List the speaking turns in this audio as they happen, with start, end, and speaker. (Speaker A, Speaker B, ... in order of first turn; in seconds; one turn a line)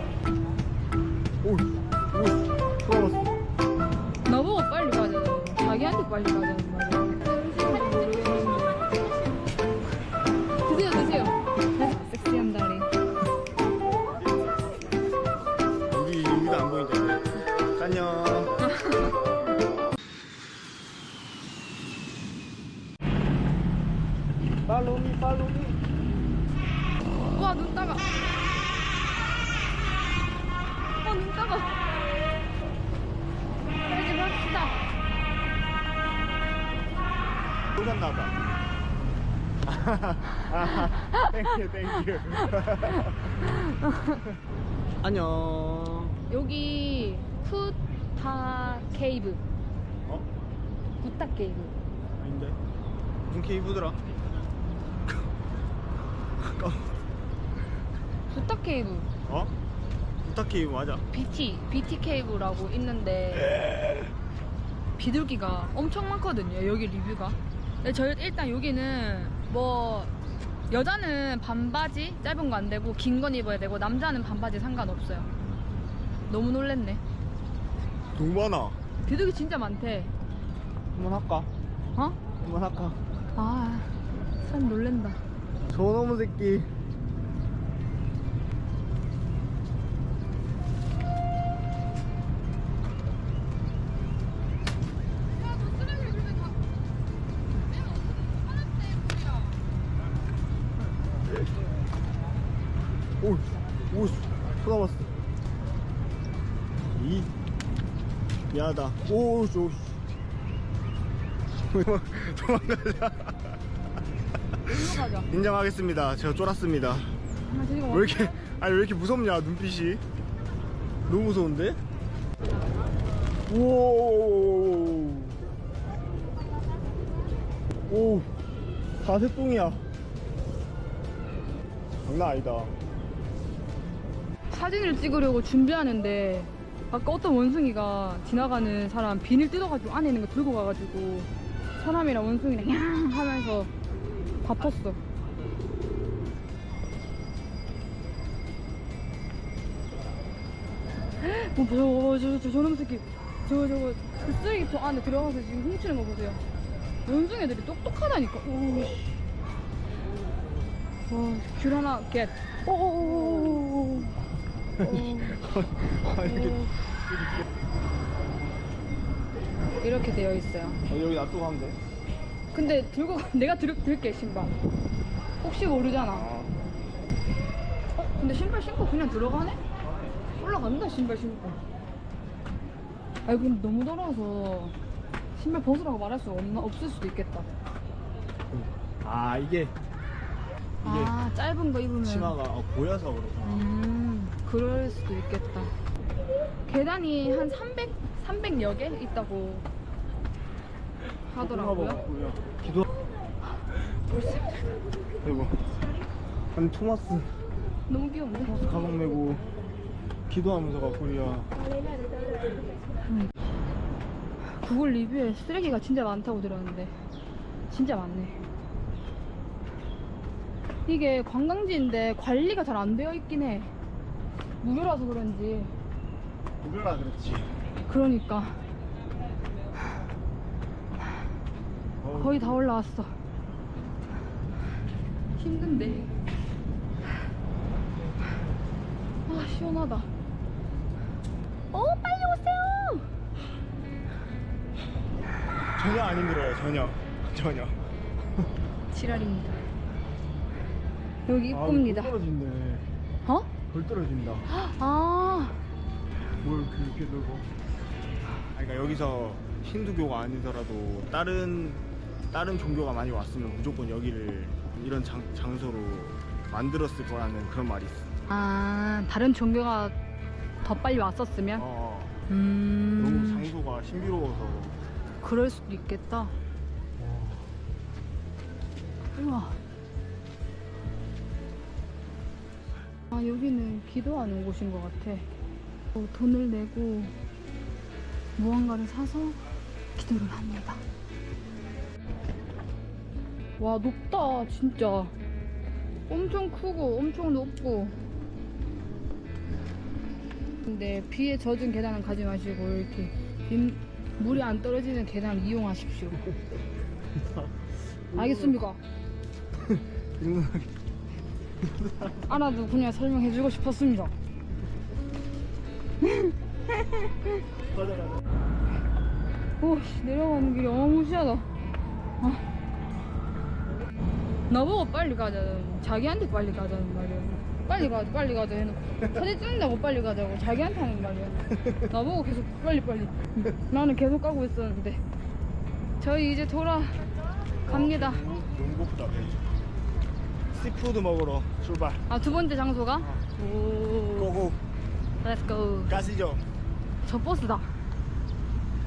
Speaker A: 1.4-3.3
Speaker B: 4.2-8.8
Speaker B: 10.7-12.9
Speaker A: 15.9-18.5
Speaker B: 18.7-19.1
Speaker A: 24.6-25.8
Speaker B: 27.2-28.1
Speaker B: 31.0-31.7
Speaker B: 33.9-34.8
Speaker A: 37.8-38.5
Speaker A: 39.6-43.5
Speaker B: 40.6-41.4
Speaker B: 42.4-44.2
Speaker A: 45.0-46.2
Speaker B: 46.3-49.4
Speaker B: 51.0-51.7
Speaker A: 52.2-52.6
Speaker A: 53.3-54.0
Speaker A: 56.4-56.9
Speaker B: 58.3-59.1
Speaker A: 59.2-59.5
Speaker A: 60.2-61.0
Speaker B: 61.1-63.5
Speaker B: 65.0-70.1
Speaker B: 70.7-75.3
Speaker B: 76.3-77.0
Speaker A: 78.1-78.8
Speaker B: 79.0-80.1
Speaker A: 80.9-81.5
Speaker A: 82.4-83.0
Speaker B: 83.3-85.2
Speaker A: 85.7-86.7
Speaker A: 103.2-105.1
Speaker A: 106.9-107.3
Speaker A: 108.5-110.0
Speaker A: 111.6-113.5
Speaker B: 114.6-115.3
Speaker A: 114.7-117.1
Speaker B: 117.5-118.4
Speaker A: 117.9-120.0
Speaker A: 121.1-121.8
Speaker A: 123.5-125.4
Speaker A: 127.9-128.3
Speaker A: 129.0-129.8
Speaker A: 132.0-132.7
Speaker B: 134.5-143.7
Speaker B: 144.4-145.0
Speaker B: 151.2-156.4
Speaker B: 157.1-159.0
Speaker B: 161.1-164.2
Speaker A: 164.8-166.8
Speaker B: 164.8-165.4
Speaker B: 166.2-166.7
Speaker B: 169.8-170.8
Speaker A: 170.9-171.8
Speaker B: 172.5-174.5
Speaker B: 175.4-176.3
Speaker A: 176.1-176.5
Speaker B: 178.0-179.6
Speaker B: 180.3-181.6
Speaker B: 183.2-184.8
Speaker B: 185.3-187.5
Speaker A: 188.5-189.8
Speaker A: 190.8-191.2
Speaker B: 190.8-192.4
Speaker A: 192.0-193.7
Speaker B: 193.4-195.7
Speaker B: 196.7-199.7
Speaker B: 201.3-202.0
Speaker A: 201.4-202.8
Speaker A: 205.2-205.6
Speaker A: 206.5-207.3
Speaker B: 207.9-208.8
Speaker A: 208.4-209.4
Speaker A: 210.3-211.5
Speaker B: 213.1-213.3
Speaker B: 214.4-216.9
Speaker B: 217.7-218.4
Speaker B: 220.8-223.7
Speaker B: 224.6-225.7
Speaker A: 226.6-227.5
Speaker B: 227.9-228.6
Speaker A: 232.0-232.6
Speaker B: 232.2-233.1
Speaker B: 235.4-236.1
Speaker B: 239.3-240.1
Speaker B: 241.7-243.1
Speaker A: 245.8-247.8
Speaker B: 248.9-249.6
Speaker B: 251.3-252.2
Speaker A: 251.5-252.8
Speaker B: 253.2-253.5
Speaker A: 253.7-254.5
Speaker B: 254.5-255.6
Speaker A: 256.4-257.5
Speaker A: 258.5-268.1
Speaker B: 268.3-269.9
Speaker B: 270.6-271.6
Speaker A: 271.6-272.2
Speaker B: 272.3-273.5
Speaker A: 273.0-274.8
Speaker B: 275.2-276.4
Speaker A: 277.0-277.5
Speaker B: 279.1-279.6
Speaker B: 283.1-285.3
Speaker B: 285.9-287.1
Speaker B: 288.4-289.4
Speaker B: 290.0-290.8
Speaker B: 293.6-295.1
Speaker B: 296.1-298.0
Speaker B: 300.7-306.3
Speaker A: 307.2-307.5
Speaker A: 308.1-308.6
Speaker B: 308.1-308.8
Speaker A: 309.7-310.7
Speaker A: 311.6-312.2
Speaker B: 312.3-314.1
Speaker B: 316.0-317.4
Speaker A: 317.7-318.2
Speaker B: 319.6-321.5
Speaker B: 324.5-335.0
Speaker B: 336.0-337.0
Speaker B: 337.6-338.2
Speaker A: 337.7-339.4
Speaker A: 340.5-342.0
Speaker B: 342.1-344.4
Speaker A: 344.1-344.6
Speaker B: 345.2-346.0
Speaker A: 345.9-346.4
Speaker B: 347.0-347.7